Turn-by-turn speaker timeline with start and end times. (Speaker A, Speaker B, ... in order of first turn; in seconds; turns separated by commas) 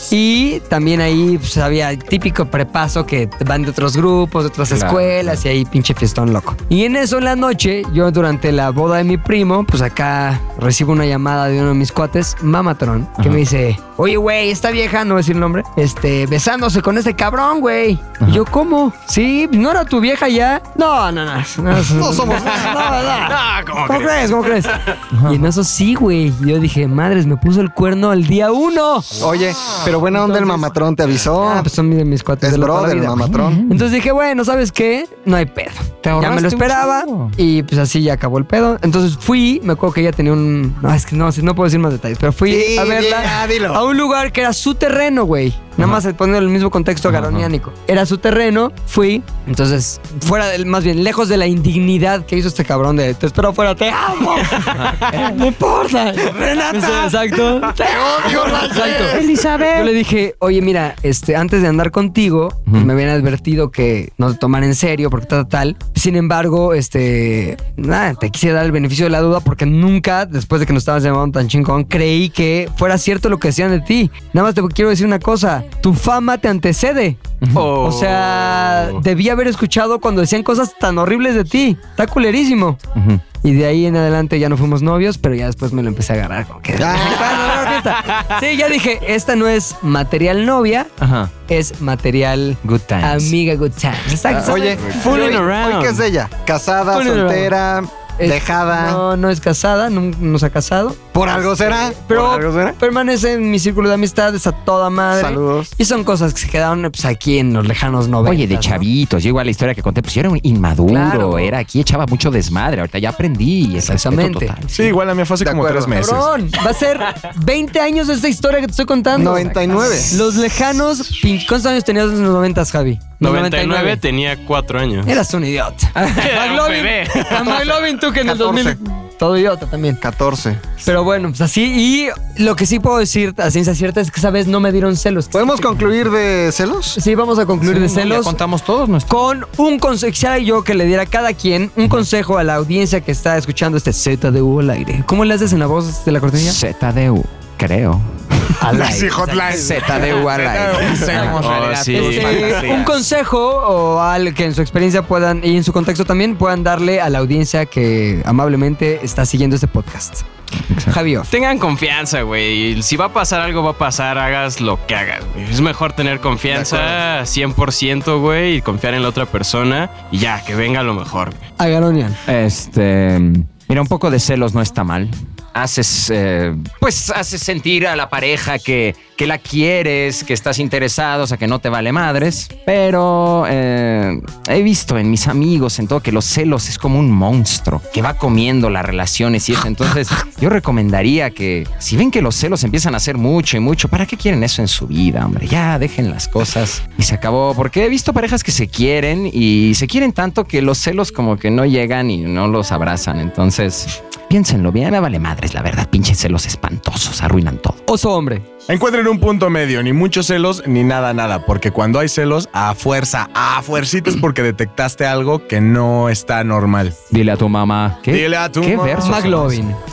Speaker A: 0.1-29.2, Speaker B: 4.7-5.4, Speaker C: 21.8-23.1, Speaker D: 22.3-24.9, Speaker B: 25.1-25.4, Speaker C: 29.2-31.7, Speaker A: 30.1-30.7, Speaker A: 31.4-82.8, Speaker C: 32.4-33.6, Speaker B: 33.2-33.9, Speaker B: 36.0-37.4, Speaker C: 42.5-43.8, Speaker B: 47.1-47.5, Speaker B: 54.8-55.4, Speaker C: 56.3-59.3, Speaker B: 58.7-59.9, Speaker B: 77.4-77.7, Speaker D: 77.5-79.0, Speaker B: 82.9-83.2, Speaker A: 83.4-90.9, Speaker C: 86.8-87.7, Speaker D: 88.0-88.2, Speaker B: 91.0-91.3, Speaker A: 91.5-95.3, Speaker B: 92.6-93.3, Speaker B: 94.3-94.6, Speaker C: 94.4-99.0, Speaker D: 94.8-96.0, Speaker A: 96.9-97.5, Speaker A: 98.2-108.9, Speaker C: 101.1-102.8, Speaker C: 105.1-105.7, Speaker B: 108.2-114.9, Speaker A: 110.9-111.5, Speaker A: 113.8-114.5, Speaker E: 114.7-116.3, Speaker C: 115.4-116.0, Speaker A: 116.0-124.0, Speaker C: 119.2-120.2, Speaker B: 119.2-120.0, Speaker D: 123.2-125.2, Speaker A: 125.1-130.0, Speaker B: 126.0-126.5, Speaker D: 126.0-127.8, Speaker C: 128.2-128.8, Speaker C: 130.0-130.8, Speaker A: 130.8-135.7, Speaker C: 135.3-137.0, Speaker A: 137.0-138.4, Speaker B: 137.6-139.2, Speaker A: 139.1-146.6, Speaker B: 146.3-148.5, Speaker A: 148.6-150.1, Speaker E: 148.7-152.9, Speaker B: 149.5-152.9, Speaker A: 150.8-151.4, Speaker D: 151.4-152.6, Speaker A: 151.9-160.2, Speaker B: 160.7-161.0, Speaker A: 160.8-161.3, Speaker D: 161.3-171.4, Speaker C: 166.5-167.0, Speaker A: 171.6-172.2, Speaker B: 172.3-207.8, Speaker A: 207.9-208.5, Speaker E: 208.7-217.0, Speaker B: 217.1-219.6, Speaker E: 218.1-219.2, Speaker A: 219.0-219.8